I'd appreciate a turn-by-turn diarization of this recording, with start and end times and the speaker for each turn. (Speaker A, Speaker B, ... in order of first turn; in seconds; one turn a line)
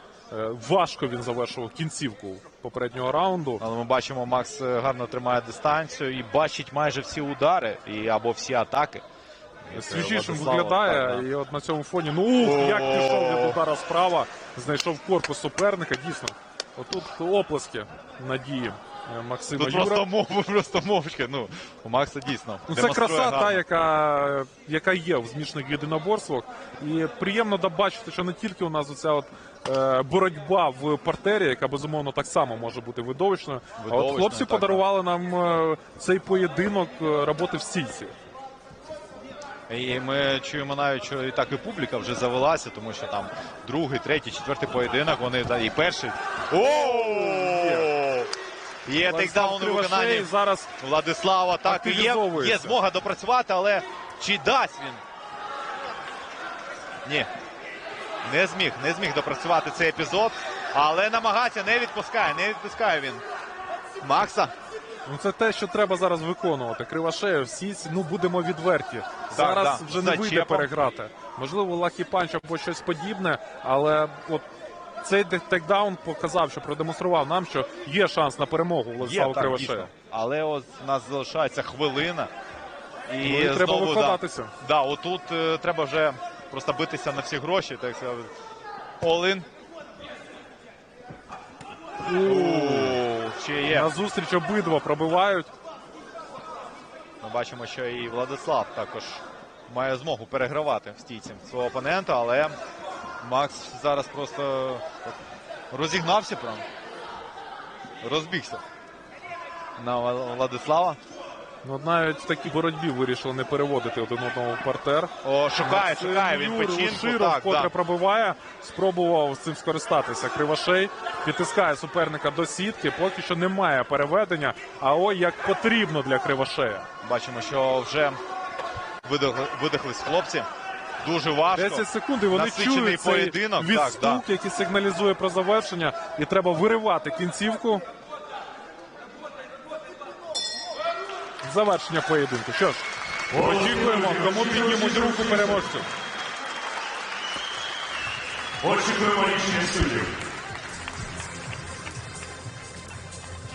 Speaker A: 0.3-3.6
Speaker B: 3.6-9.0
Speaker B: 9.6-11.2
Speaker A: 9.7-20.1
Speaker B: 12.4-13.6
Speaker B: 19.5-23.6
Speaker A: 22.7-38.1
Speaker B: 33.8-34.8
Speaker B: 39.7-48.3
Speaker A: 46.6-47.9
Speaker B: 48.9-55.0
Speaker A: 49.0-50.7
Speaker A: 51.6-52.8
Speaker B: 57.0-57.3
Speaker B: 58.2-63.2
Speaker B: 64.0-64.5
Speaker A: 65.0-74.5
Speaker B: 69.3-70.7
Speaker A: 75.0-79.9
Speaker B: 79.0-82.3
Speaker B: 83.1-88.3
Speaker A: 83.2-84.5
Speaker B: 89.0-89.5
Speaker A: 92.0-93.0
Speaker B: 92.2-93.9
Speaker A: 93.7-95.5
Speaker B: 97.2-102.5
Speaker B: 103.2-105.2
Speaker B: 105.7-106.7
Speaker B: 108.0-108.6
Speaker B: 109.8-111.0
Speaker A: 111.6-126.9
Speaker B: 115.2-117.7
Speaker B: 127.0-128.2
Speaker B: 129.0-130.5
Speaker B: 131.0-134.2
Speaker A: 131.5-137.8
Speaker A: 141.4-145.8
Speaker C: 143.3-145.6
Speaker C: 148.6-150.1